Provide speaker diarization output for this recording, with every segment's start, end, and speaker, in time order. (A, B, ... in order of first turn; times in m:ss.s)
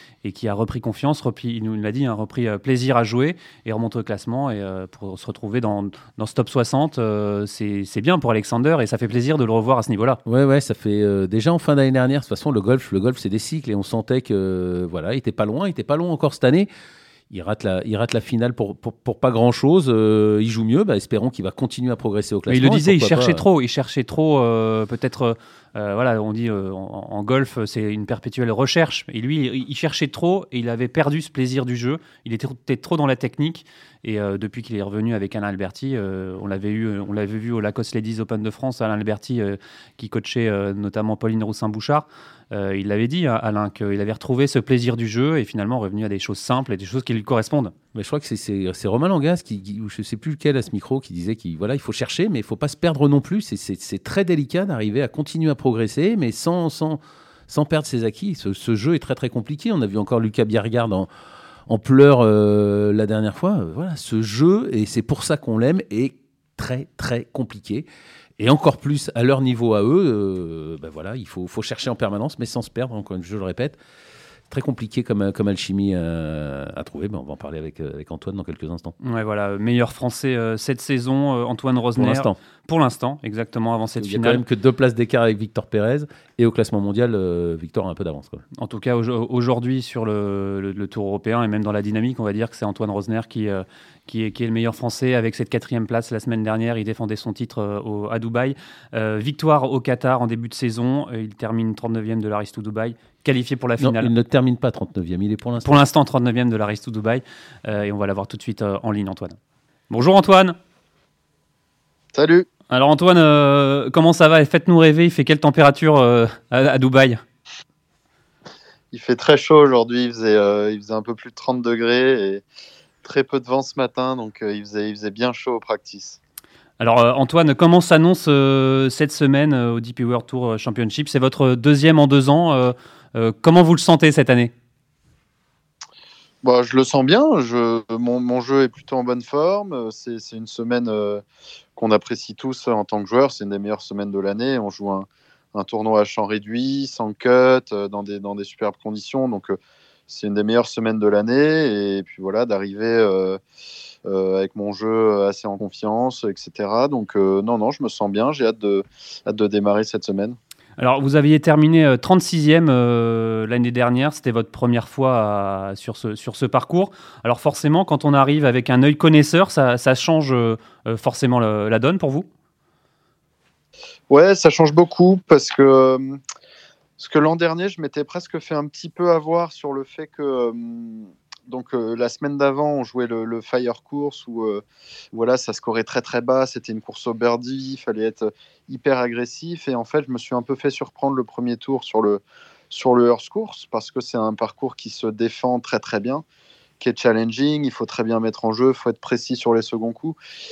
0:00.2-0:10.2 A
0:10.2-0:16.7 B
0:17.3-0:23.4 B
0:22.5-0:47.7 A
0:47.9-1:01.1 B
1:01.7-1:07.8 B
1:08.4-1:13.8 B
1:14.5-1:18.9 B
1:19.0-1:24.4 A
1:22.0-1:22.4 B
1:24.0-1:28.4 B
1:28.6-1:44.1 A
1:43.8-1:45.8 B
1:45.6-1:49.4 A
1:49.9-1:50.6 A
1:52.1-1:52.5 C
1:52.7-1:57.2 A
1:58.9-2:02.4 C
2:03.0-2:06.2 C
2:06.8-2:14.5 A
2:16.4-2:21.2 C
2:21.8-2:29.6 C
2:30.1-2:33.4 C
2:34.0-2:40.4 C
2:40.8-2:52.3 A
2:54.1-2:56.2 C
2:57.0-3:16.2 C
3:16.8-3:20.2 C